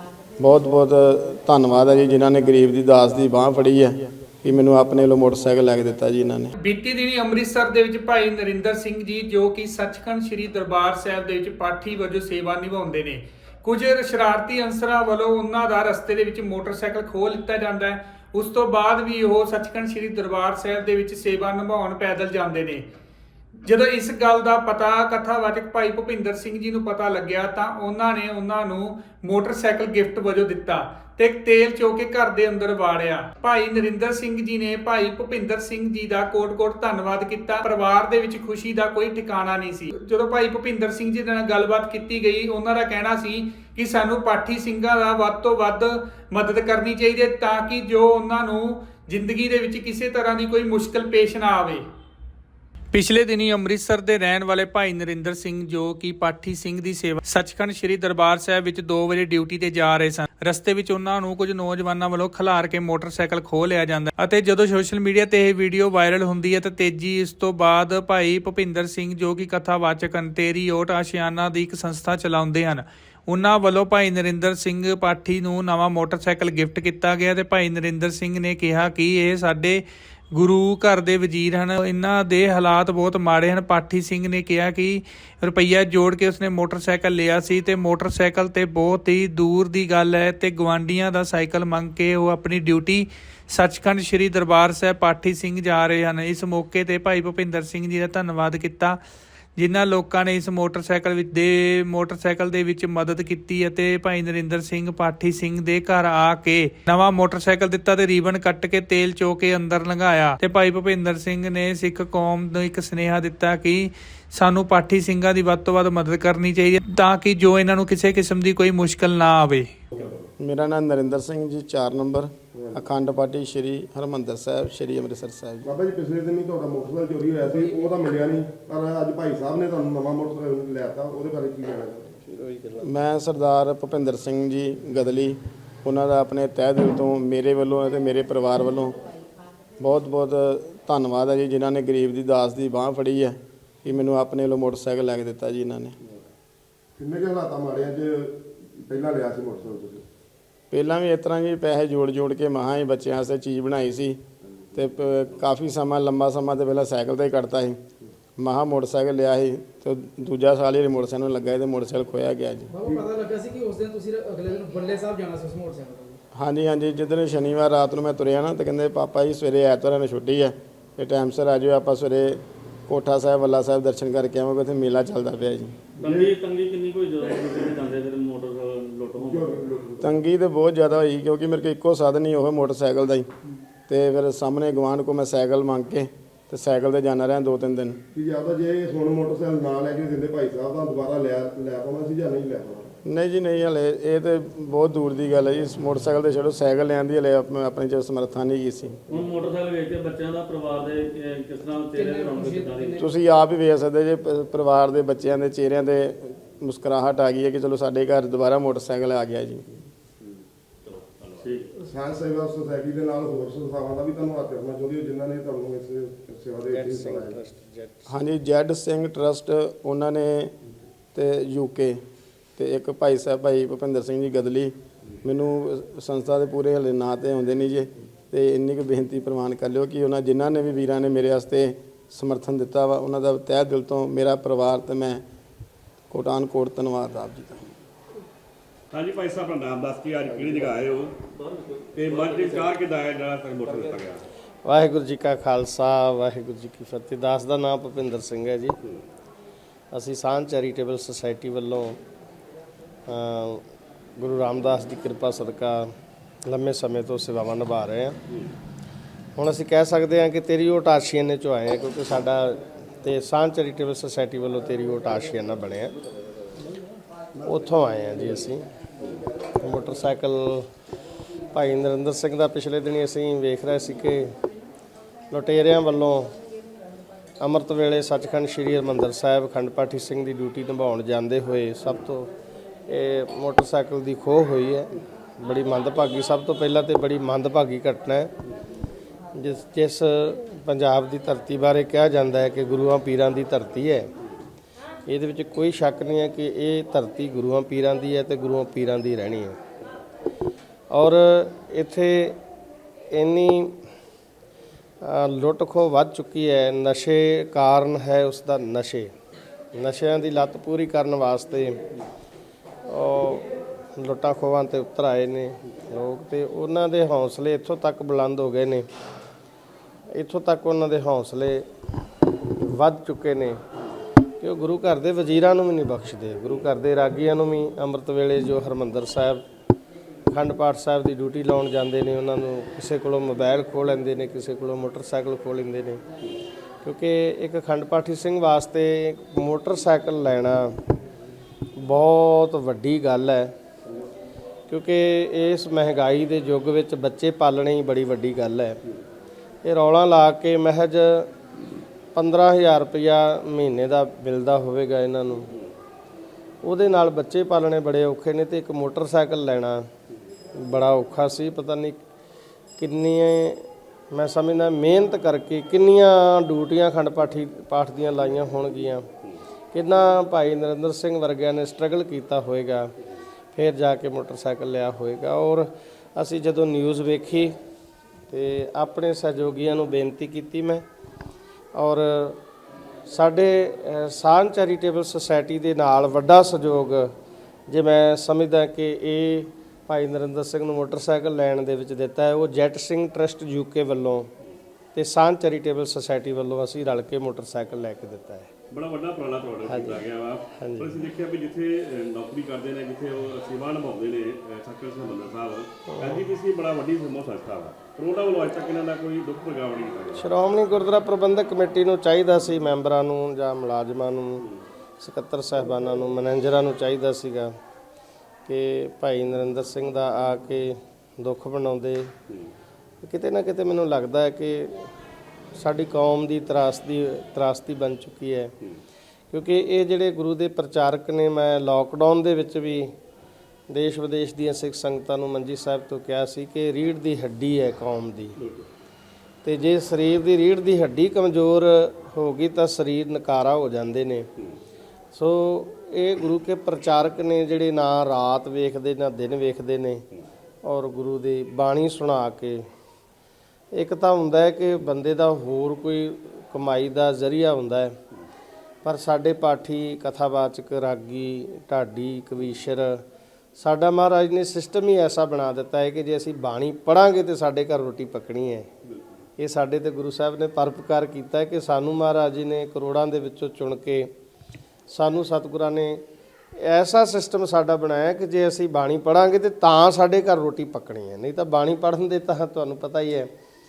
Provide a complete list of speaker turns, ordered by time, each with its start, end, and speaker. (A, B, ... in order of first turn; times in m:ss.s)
0:00.4-0:06.5 A
0:06.6-0:22.8 B
0:23.6-0:51.8 B
0:52.9-1:39.0 B
1:39.6-1:59.7 B
2:00.4-2:05.7 A
2:02.5-2:02.8 C
2:05.6-2:12.2 C
2:12.8-2:18.9 A
2:19.8-2:26.0 A
2:27.0-2:30.0 C
2:30.7-2:34.2 A
2:34.7-2:37.8 A
2:38.4-2:42.7 A
2:42.7-2:46.2 D
2:46.3-2:55.9 A
2:56.0-2:56.4 C
2:56.0-2:59.5 E
2:59.2-3:00.1 C
3:00.0-3:03.3 A
3:03.9-3:08.0 A
3:08.1-3:12.9 C
3:13.0-3:19.0 A
3:19.1-3:23.0 E
3:21.9-3:23.1 D
3:23.0-3:29.8 A
3:31.3-3:31.7 E
3:31.8-3:37.4 C
3:36.7-3:38.1 F
3:38.1-3:40.5 A
3:41.1-3:42.0 A
3:42.6-3:55.2 A
3:56.1-3:57.6 A
3:58.9-4:01.2 G
4:01.3-4:02.8 E
4:01.9-4:04.2 G
4:03.6-4:04.0 E
4:04.6-4:08.8 F
4:09.9-4:12.0 F
4:13.1-4:13.6 F
4:14.2-4:15.9 F
4:16.4-4:18.2 F
4:19.4-4:25.9 F
4:27.4-4:28.6 F
4:29.6-4:30.7 F
4:31.5-4:34.3 F
4:35.3-4:36.3 F
4:37.4-4:42.3 F
4:42.9-4:48.3 F
4:49.3-4:54.1 F
4:55.0-4:59.6 F
5:00.9-5:02.4 F
5:03.1-5:03.8 F
5:05.0-5:09.1 F
5:09.7-5:11.8 F
5:12.8-5:18.9 F
5:20.1-5:21.6 F
5:22.5-5:23.6 F
5:24.4-5:29.4 F
5:30.3-5:36.0 F
5:36.8-5:40.8 F
5:41.8-5:43.5 F
5:44.7-5:48.8 F
5:49.6-5:51.3 F
5:52.1-5:55.5 F
5:56.6-5:59.9 F
6:00.6-6:02.0 F
6:02.8-6:09.1 F
6:09.7-6:12.9 F
6:13.5-6:17.5 F
6:18.3-6:20.8 F
6:21.7-6:22.4 F
6:23.1-6:27.1 F
6:27.7-6:34.3 F
6:34.9-6:38.5 F
6:38.7-6:50.2 G
6:39.7-6:40.0 F
6:40.6-6:40.9 F
6:45.9-6:46.2 F
6:50.1-6:54.4 F
6:55.0-6:57.5 F
6:58.5-7:02.1 F
7:03.0-7:04.9 F
7:05.6-7:08.5 F
7:09.3-7:12.9 F
7:13.7-7:18.4 F
7:19.4-7:24.3 F
7:25.1-7:30.0 F
7:30.6-7:32.6 F
7:33.7-7:38.0 F
7:38.8-7:43.0 F
7:43.6-7:48.7 F
7:49.4-7:54.1 F
7:54.9-7:56.0 F
7:56.6-8:03.3 F